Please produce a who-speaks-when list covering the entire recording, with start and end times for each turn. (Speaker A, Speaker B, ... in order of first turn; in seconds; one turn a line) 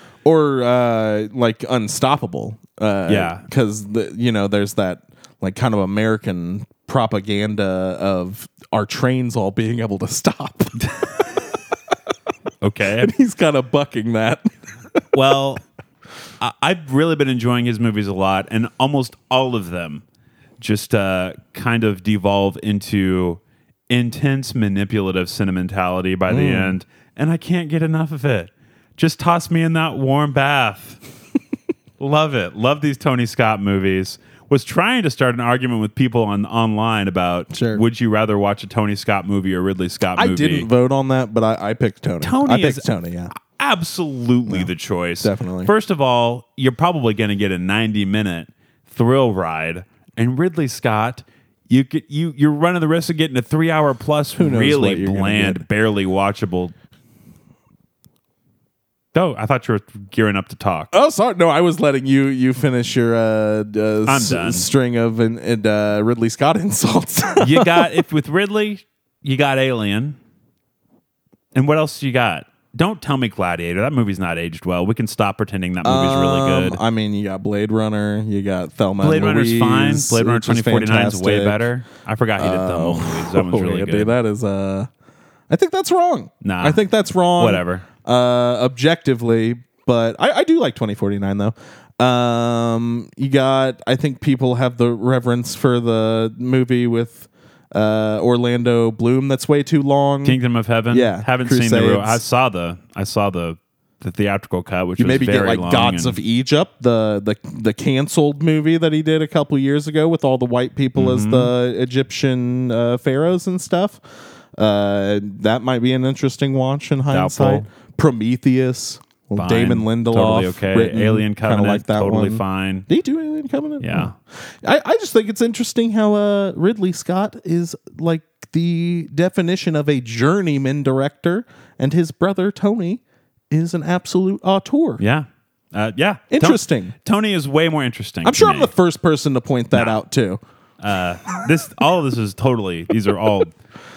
Speaker A: 0.2-10.8
Speaker B: 3.1-3.4
Speaker B: 10.8-11.1
Speaker B: 12.6-13.1
Speaker A: 13.0-14.4
Speaker B: 15.1-15.6
Speaker B: 16.4-20.0
Speaker B: 20.6-31.0
Speaker A: 26.3-26.8
Speaker B: 32.0-40.7
Speaker A: 37.5-37.8
Speaker A: 40.2-43.3
Speaker B: 42.2-56.7
Speaker A: 45.2-45.7
Speaker A: 54.4-55.6
Speaker B: 59.1-60.9
Speaker A: 60.9-67.9
Speaker B: 64.0-64.7
Speaker B: 67.4-70.2
Speaker B: 71.5-76.8
Speaker A: 75.8-81.6
Speaker B: 79.0-84.1
Speaker A: 82.4-84.9
Speaker A: 85.5-100.4
Speaker B: 86.4-86.8
Speaker B: 87.4-87.8
Speaker B: 100.2-106.2
Speaker A: 100.9-102.2
Speaker A: 105.0-114.0
Speaker B: 111.0-111.5
Speaker A: 114.5-135.0
Speaker B: 117.1-117.7
Speaker B: 119.4-122.9
Speaker B: 123.8-124.1
Speaker B: 135.0-138.7
Speaker A: 136.3-136.9
Speaker A: 138.2-140.4
Speaker B: 140.8-143.5